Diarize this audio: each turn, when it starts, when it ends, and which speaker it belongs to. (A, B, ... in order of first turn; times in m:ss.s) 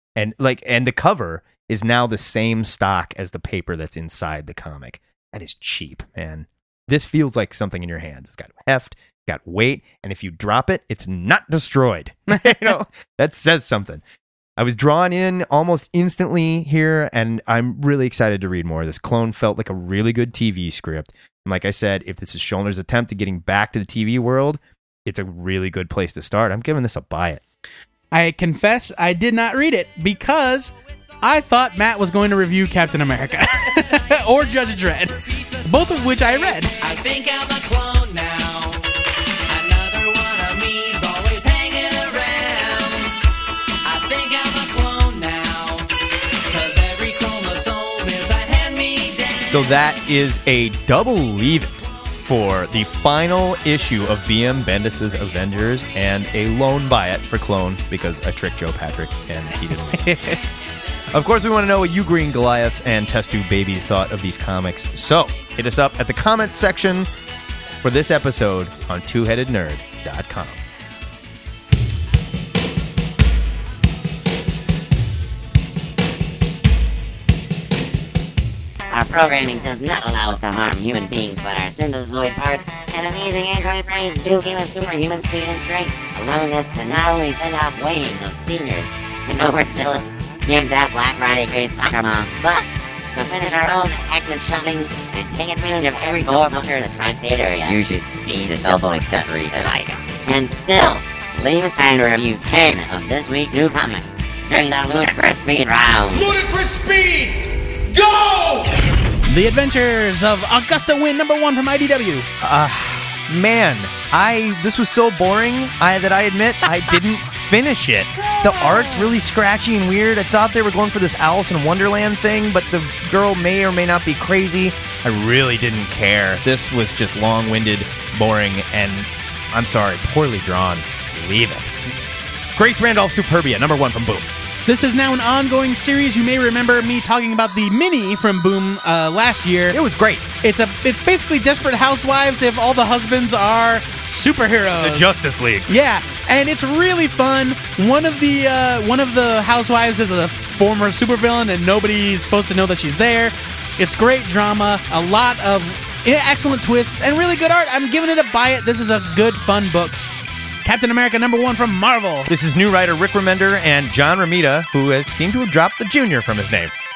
0:00.2-0:14.0 A
0:14.6-0:27.4 A
0:28.1-0:36.7 B
0:35.3-0:38.9 C
0:39.5-0:43.2 C
0:43.8-0:45.9 C
0:46.4-0:49.7 C
0:49.5-1:00.2 A
0:59.9-1:00.4 B
1:01.1-1:07.1 A
1:07.8-1:10.6 A
1:18.9-1:46.3 D
1:46.1-1:49.1 E
1:49.2-1:52.3 B
1:52.4-2:11.8 A
1:58.2-1:59.1 B
2:12.6-2:14.3 A
2:14.7-2:19.8 B
2:19.7-2:20.3 A
2:20.4-2:25.1 B
2:24.8-2:25.7 A
2:25.7-2:40.0 B
2:40.6-2:42.3 B
2:42.3-2:46.7 A